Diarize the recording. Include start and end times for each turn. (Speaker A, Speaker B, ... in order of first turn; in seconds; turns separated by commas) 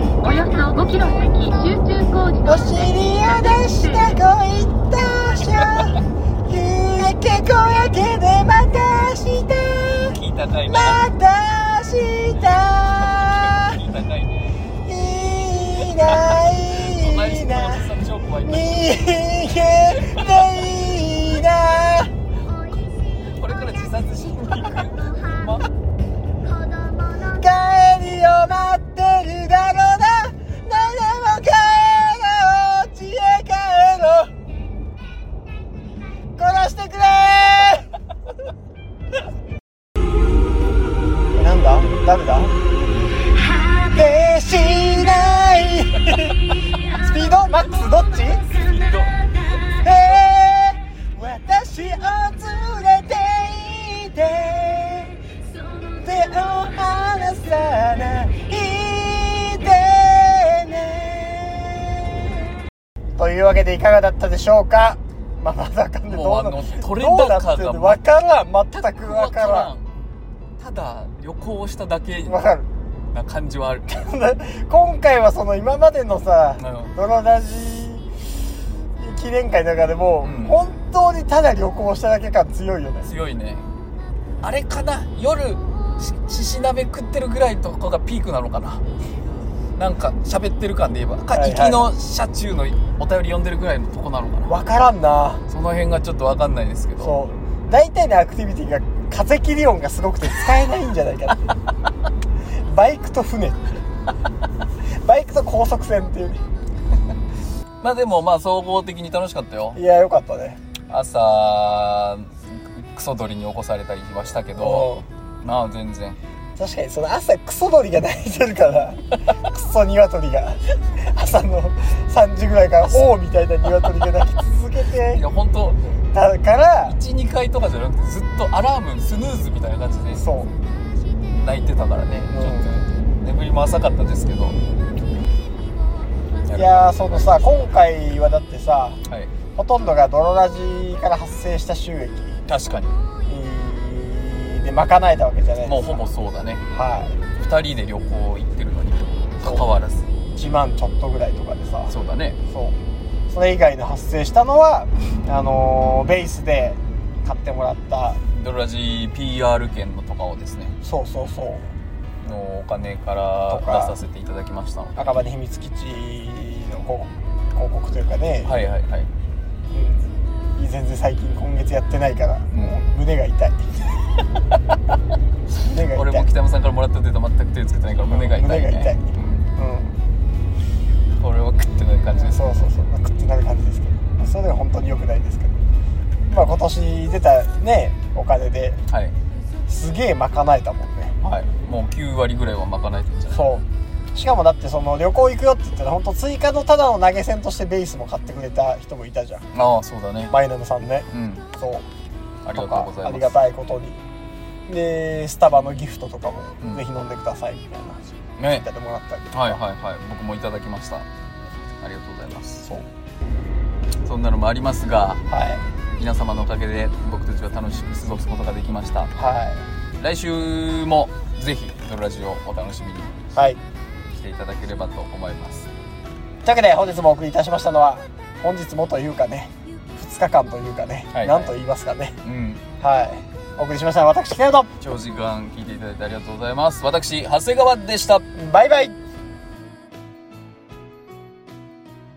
Speaker A: 0.2-2.4, Speaker B: 2.4-13.8, Speaker C: 5.6-6.0, Speaker C: 10.1-11.0, Speaker C: 12.7-14.6, Speaker B: 14.9-17.9, Speaker C: 15.8-19.0, Speaker B: 18.4-22.1, Speaker C: 19.9-20.6, Speaker C: 23.0-25.7, Speaker B: 27.2-34.3, Speaker B: 36.4-37.9, Speaker B: 41.4-42.5, Speaker B: 43.9-48.5, Speaker C: 48.5-49.2, Speaker B: 49.8-55.1, Speaker B: 56.0-62.4, Speaker B: 63.2-69.7, Speaker C: 66.1-68.0, Speaker C: 68.7-69.9, Speaker C: 70.6-72.4, Speaker B: 72.2-72.7, Speaker C: 73.1-74.0, Speaker B: 73.9-78.1, Speaker C: 76.6-76.9, Speaker B: 79.0-83.1, Speaker C: 80.2-80.6, Speaker C: 83.0-83.7, Speaker C: 84.4-88.8, Speaker C: 89.8-94.6, Speaker B: 91.3-91.9, Speaker B: 94.5-95.5, Speaker C: 95.5-97.2, Speaker B: 97.0-101.5, Speaker B: 102.7-103.6, Speaker B: 105.0-106.4, Speaker C: 107.8-109.8, Speaker B: 109.7-110.6, Speaker C: 110.9-116.2, Speaker B: 114.5-115.1, Speaker B: 116.6-125.2, Speaker C: 125.1-126.0, Speaker B: 126.1-127.0, Speaker C: 126.8-130.3, Speaker B: 130.1-130.5, Speaker C: 131.3-134.6, Speaker B: 132.3-132.7, Speaker C: 136.5-137.7, Speaker B: 136.5-139.0, Speaker B: 139.6-142.4, Speaker C: 142.5-143.0, Speaker B: 143.3-146.1, Speaker C: 145.6-146.7, Speaker B: 146.7-147.2, Speaker C: 147.4-150.1, Speaker B: 150.3-151.9, Speaker C: 151.9-152.4, Speaker B: 152.5-152.8, Speaker B: 153.3-158.2, Speaker C: 158.3-160.8, Speaker B: 160.8-161.7, Speaker C: 162.2-165.2, Speaker B: 163.5-164.0, Speaker B: 165.0-168.6, Speaker C: 168.4-169.1, Speaker B: 169.7-170.1, Speaker B: 170.6-173.6, Speaker B: 175.6-176.3, Speaker C: 175.7-179.5, Speaker B: 178.1-180.0, Speaker C: 181.2-182.4, Speaker B: 182.1-185.6, Speaker B: 186.3-188.8, Speaker C: 188.9-189.2, Speaker B: 189.7-191.1, Speaker C: 191.2-193.5, Speaker B: 193.3-199.5, Speaker C: 199.5-200.3, Speaker B: 200.3-201.9, Speaker C: 201.1-201.4, Speaker C: 202.4-203.4, Speaker B: 202.5-204.0, Speaker B: 204.7-209.6, Speaker C: 208.4-208.7, Speaker C: 209.3-211.1, Speaker C: 211.8-212.7, Speaker C: 214.1-215.2, Speaker B: 215.3-215.6, Speaker C: 216.0-219.1, Speaker B: 219.2-219.6, Speaker C: 220.0-223.1, Speaker B: 223.3-223.6, Speaker C: 224.1-225.7, Speaker B: 226.4-232.2, Speaker C: 231.1-231.6, Speaker C: 232.2-232.6, Speaker B: 232.8-234.7, Speaker C: 234.8-238.2, Speaker B: 238.3-239.0